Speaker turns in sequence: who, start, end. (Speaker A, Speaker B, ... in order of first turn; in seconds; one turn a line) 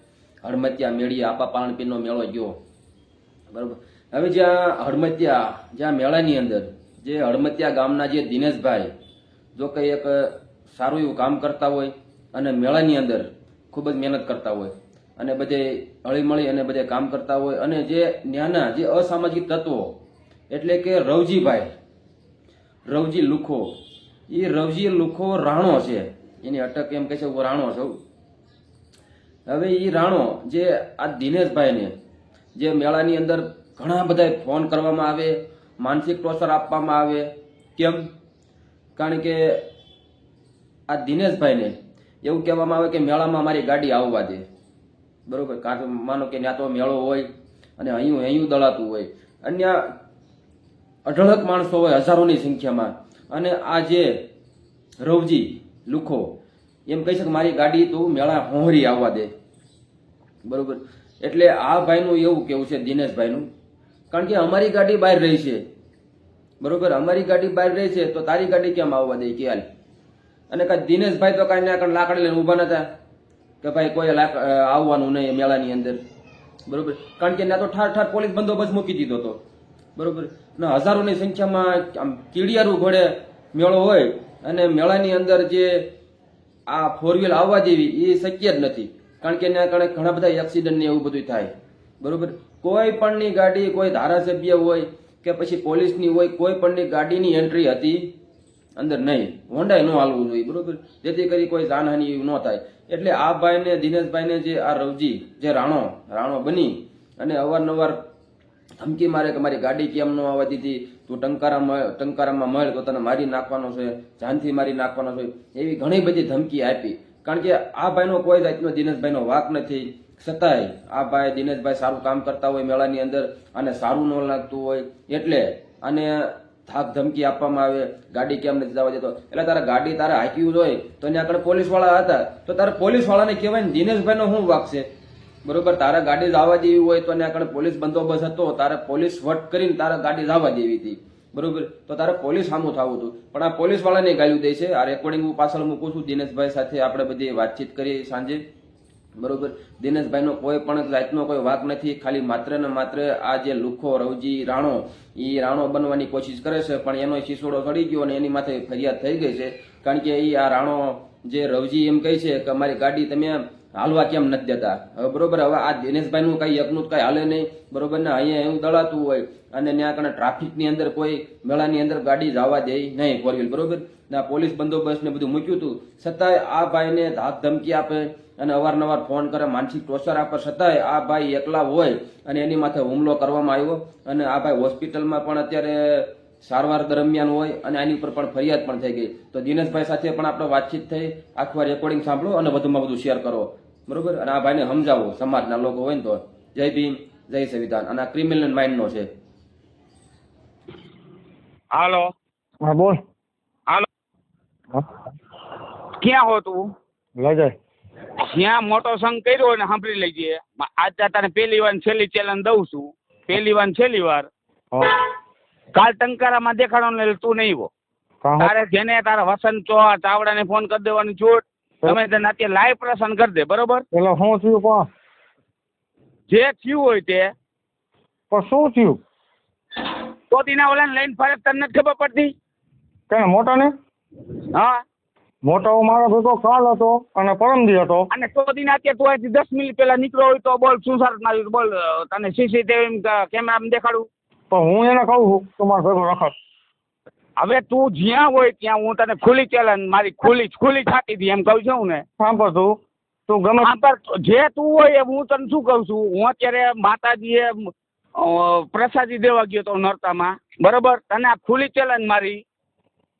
Speaker A: 0.4-2.5
Speaker A: 3.5-8.9
Speaker A: 9.5-19.9
Speaker A: 20.5-21.7
Speaker A: 22.9-23.7
Speaker A: 24.3-28.0
Speaker A: 29.5-31.9
Speaker A: 32.5-37.2
Speaker A: 37.8-38.0
Speaker A: 39.0-39.6
Speaker A: 40.9-44.4
Speaker A: 45.3-47.3
Speaker A: 47.8-49.8
Speaker A: 51.0-54.1
Speaker A: 55.0-56.2
Speaker A: 56.9-59.3
Speaker A: 60.4-63.5
Speaker A: 64.1-65.6
Speaker A: 66.6-69.6
Speaker A: 70.5-72.8
Speaker A: 73.6-76.0
Speaker A: 76.7-79.4
Speaker A: 80.0-85.7
Speaker A: 86.7-98.1
Speaker A: 98.8-108.0
Speaker A: 108.8-134.8
Speaker A: 135.4-148.4
Speaker A: 149.2-199.1
Speaker B: 201.7-202.1
Speaker C: 202.6-203.0
Speaker B: 206.0-206.6
Speaker C: 207.2-207.5
Speaker B: 208.2-214.3
Speaker B: 215.7-217.7
Speaker C: 218.2-218.5
Speaker B: 218.4-223.8
Speaker C: 224.0-224.8
Speaker B: 226.3-227.3
Speaker C: 228.3-228.9
Speaker B: 229.9-232.3
Speaker C: 233.1-233.7
Speaker C: 235.5-238.0
Speaker B: 238.1-244.1
Speaker C: 244.5-246.3
Speaker B: 247.4-252.0
Speaker C: 252.2-252.7
Speaker C: 253.3-253.7
Speaker B: 253.6-262.4